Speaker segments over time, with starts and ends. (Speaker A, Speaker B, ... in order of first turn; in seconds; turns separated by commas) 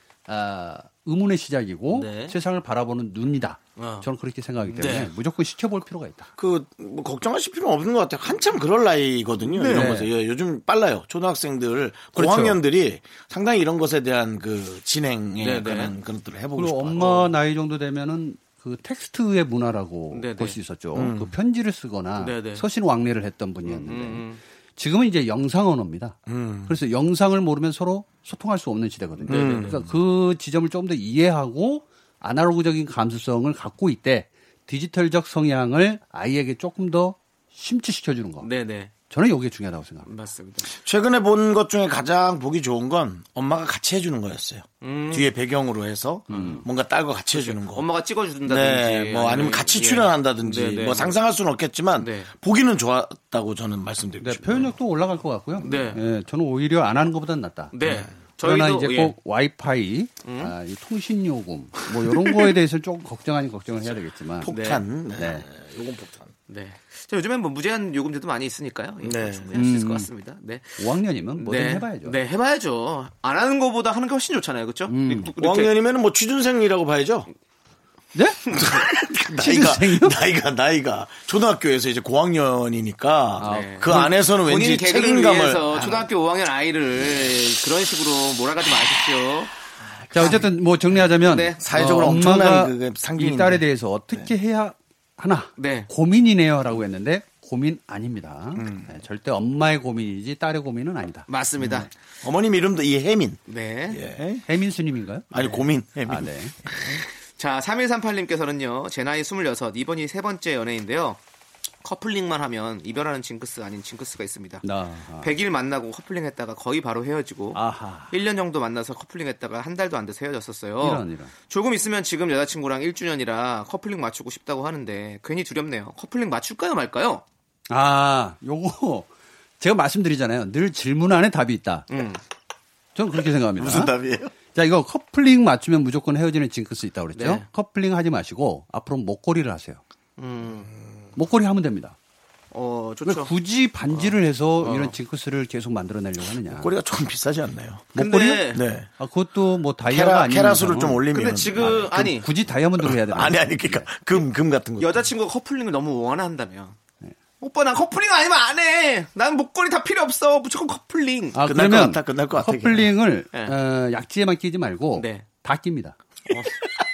Speaker A: 0.3-6.3, Speaker B: 1.9-2.4, Speaker B: 3.8-4.1, Speaker B: 4.7-5.1, Speaker C: 6.4-17.3, Speaker A: 9.5-10.1, Speaker B: 9.6-9.9, Speaker A: 12.1-12.6, Speaker B: 15.4-15.9, Speaker A: 16.6-38.5, Speaker B: 20.1-20.6, Speaker C: 20.9-21.3, Speaker B: 22.2-22.6, Speaker B: 23.6-24.4, Speaker C: 26.3-26.8, Speaker C: 29.2-29.9, Speaker B: 29.2-29.8, Speaker B: 38.4-38.9, Speaker A: 39.1-40.1, Speaker B: 40.0-40.7, Speaker C: 40.7-47.9, Speaker B: 44.8-45.3, Speaker A: 46.3-46.6, Speaker B: 46.3-46.7, Speaker B: 47.3-51.2, Speaker C: 48.5-54.7, Speaker B: 52.0-52.3, Speaker A: 54.2-64.5, Speaker B: 55.6-56.0, Speaker B: 57.7-59.2, Speaker B: 60.2-60.5, Speaker C: 64.4-66.3, Speaker B: 64.5-64.8, Speaker A: 65.1-65.5, Speaker B: 66.5-75.8, Speaker C: 69.0-69.6, Speaker A: 69.5-70.1, Speaker A: 70.8-72.2, Speaker A: 74.9-75.3, Speaker C: 75.4-77.3, Speaker A: 78.1-78.6, Speaker C: 78.5-86.1, Speaker A: 79.4-80.2, Speaker A: 83.4-84.2, Speaker B: 83.4-89.5, Speaker C: 89.8-90.5, Speaker A: 90.1-101.8, Speaker B: 90.2-90.5, Speaker B: 91.0-91.6, Speaker C: 91.6-94.3, Speaker B: 95.6-95.9, Speaker C: 98.6-98.9, Speaker B: 101.3-101.9, Speaker C: 101.6-104.5, Speaker B: 103.5-104.0, Speaker A: 104.5-106.6, Speaker C: 105.3-107.0, Speaker B: 107.4-111.2, Speaker B: 111.8-114.7, Speaker A: 114.6-115.3, Speaker B: 115.2-127.2, Speaker A: 117.5-118.2, Speaker A: 120.8-121.3, Speaker A: 127.7-131.9, Speaker B: 131.9-132.2, Speaker A: 132.9-139.8, Speaker C: 133.6-134.3, Speaker B: 137.1-137.5, Speaker B: 140.2-140.7, Speaker A: 141.2-142.0, Speaker B: 142.5-143.3, Speaker A: 143.1-146.7, Speaker B: 143.9-145.0, Speaker C: 146.4-147.9, Speaker A: 147.9-154.0, Speaker B: 147.9-148.7, Speaker C: 148.5-148.9, Speaker C: 149.9-152.2, Speaker B: 151.1-152.3, Speaker C: 152.8-155.1, Speaker B: 154.8-156.8, Speaker B: 157.4-161.4, Speaker A: 161.3-166.0, Speaker C: 161.4-162.9, Speaker B: 163.3-163.6, Speaker B: 164.9-165.2